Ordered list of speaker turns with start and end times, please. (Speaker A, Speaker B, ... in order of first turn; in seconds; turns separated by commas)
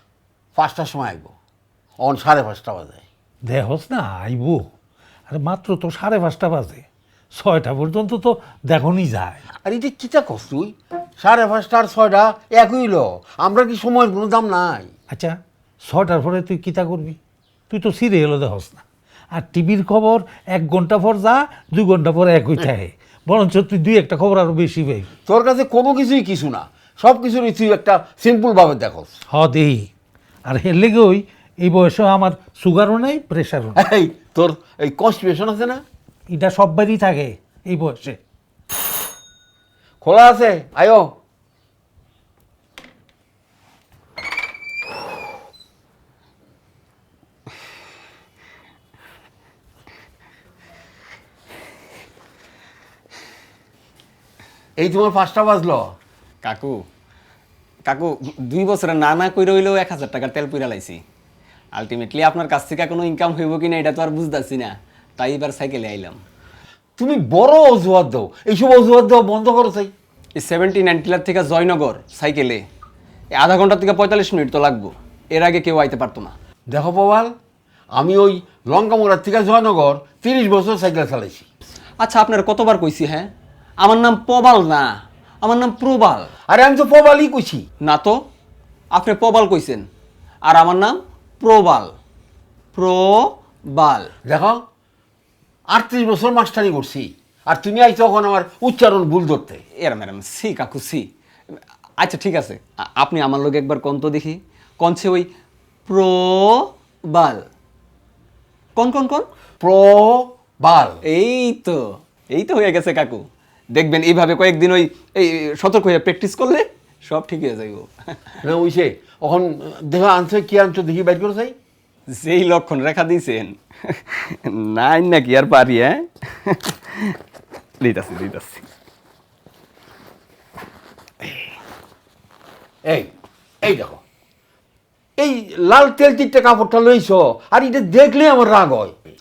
Speaker A: 0.5-1.3, Speaker A: 2.0-3.0, Speaker B: 3.5-4.6, Speaker B: 5.3-9.4, Speaker A: 9.6-14.9, Speaker B: 15.1-17.2, Speaker B: 17.7-25.1, Speaker A: 25.3-29.1, Speaker B: 29.3-29.9, Speaker B: 30.5-33.8, Speaker A: 33.8-35.8, Speaker B: 36.3-38.2, Speaker A: 40.0-41.1, Speaker A: 54.8-55.9, Speaker C: 56.4-56.8, Speaker C: 57.9-61.0, Speaker C: 61.8-66.2, Speaker A: 67.0-69.9, Speaker C: 70.4-72.6, Speaker C: 73.3-76.3, Speaker A: 76.7-77.3, Speaker A: 77.9-81.5, Speaker C: 82.0-83.3, Speaker C: 83.8-84.9, Speaker C: 85.4-86.3, Speaker A: 86.5-87.6, Speaker C: 87.8-88.2, Speaker C: 88.9-89.8, Speaker C: 90.4-91.9, Speaker C: 92.7-94.1, Speaker A: 94.2-94.6, Speaker A: 95.7-99.6, Speaker C: 99.8-101.1, Speaker C: 102.0-105.3, Speaker C: 105.9-107.4, Speaker C: 108.8-109.3, Speaker A: 109.6-111.0, Speaker C: 111.0-118.3, Speaker A: 118.4-121.5, Speaker C: 122.1-127.2, Speaker C: 127.8-128.7, Speaker A: 132.8-133.1, Speaker A: 133.6-134.0, Speaker A: 135.2-138.9